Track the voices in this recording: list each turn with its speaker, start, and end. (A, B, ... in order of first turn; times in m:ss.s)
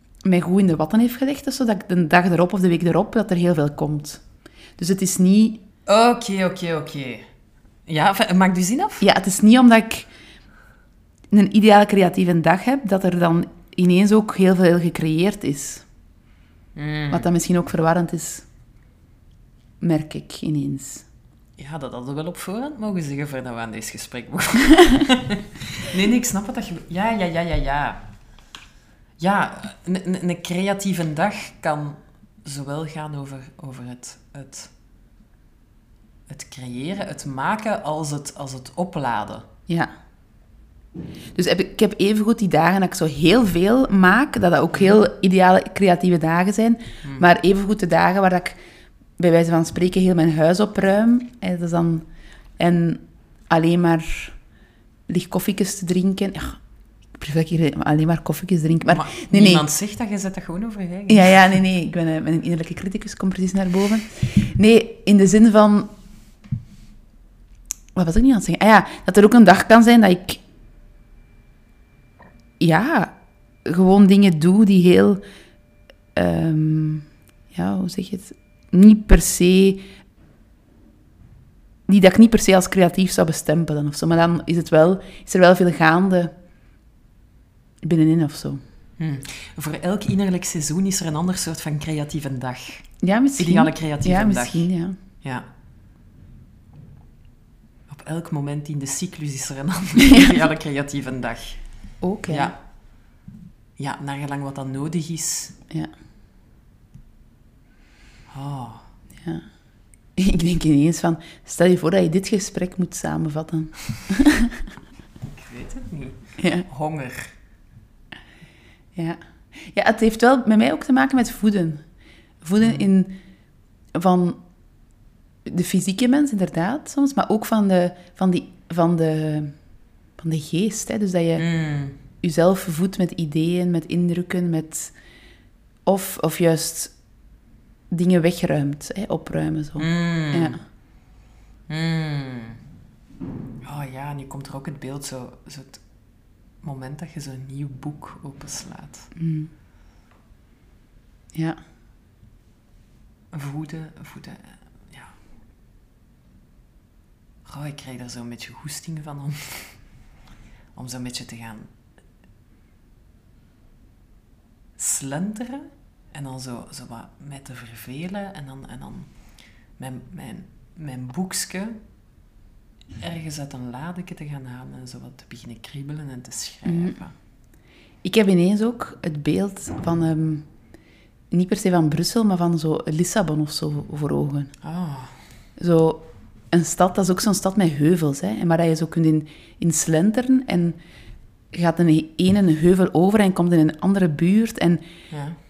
0:00.2-0:04.2 A
0:04.8-0:05.6 A
0:05.8-0:07.3 B
0:07.8-0:09.0 B
0:09.0-0:10.1 A
0:11.3-0:15.8 A
0:16.7-0:17.3 B
0:17.1-0:18.5 A
0:19.8-0:21.0 A
0:21.6-0:28.0 B
0:29.2-0:34.7 B
0:36.3-0:39.5 B
0:41.3-0:48.6 A
0:44.7-0:45.0 B
0:49.2-0:52.0 A
0:52.6-0:54.4 A
0:55.1-0:56.6 A
0:57.2-0:59.6 A
0:58.9-1:01.6 B
1:01.1-1:05.9 A
1:07.9-1:10.4 A
1:12.6-1:15.2 A
1:16.1-1:19.8 A
1:21.9-1:26.3 A
1:27.8-1:28.6 A
1:29.0-1:35.4 B
1:33.0-1:35.0 A
1:37.9-1:41.6 B
1:40.0-1:40.3 A
1:42.0-1:42.5 A
1:42.3-1:42.6 B
1:43.8-1:45.5 B
1:48.3-1:48.9 B
1:49.2-1:49.5 A
1:50.2-1:54.5 A
1:55.2-1:57.3 B
1:56.4-1:56.6 A
1:59.0-2:01.8 A
2:02.4-2:03.2 A
2:02.6-2:02.8 B
2:03.9-2:04.4 A
2:05.4-2:09.6 A
2:10.2-2:11.4 A
2:11.4-2:12.0 B
2:12.2-2:14.9 A
2:15.8-2:16.9 A
2:17.9-2:20.6 A
2:19.8-2:20.6 B
2:21.7-2:22.6 B
2:23.6-2:25.8 B
2:26.6-2:29.1 B
2:29.1-2:29.5 A
2:31.3-2:31.6 A
2:33.3-2:35.2 B
2:37.4-2:39.9 B
2:40.7-2:41.7 B
2:44.8-2:49.1 B
2:49.8-2:51.8 B
2:53.0-2:57.1 B
2:56.6-2:57.0 A
2:58.0-3:00.5 A
3:01.3-3:04.5 A
3:04.6-3:05.1 B
3:05.6-3:10.8 A
3:11.5-3:14.8 A
3:15.1-3:15.4 B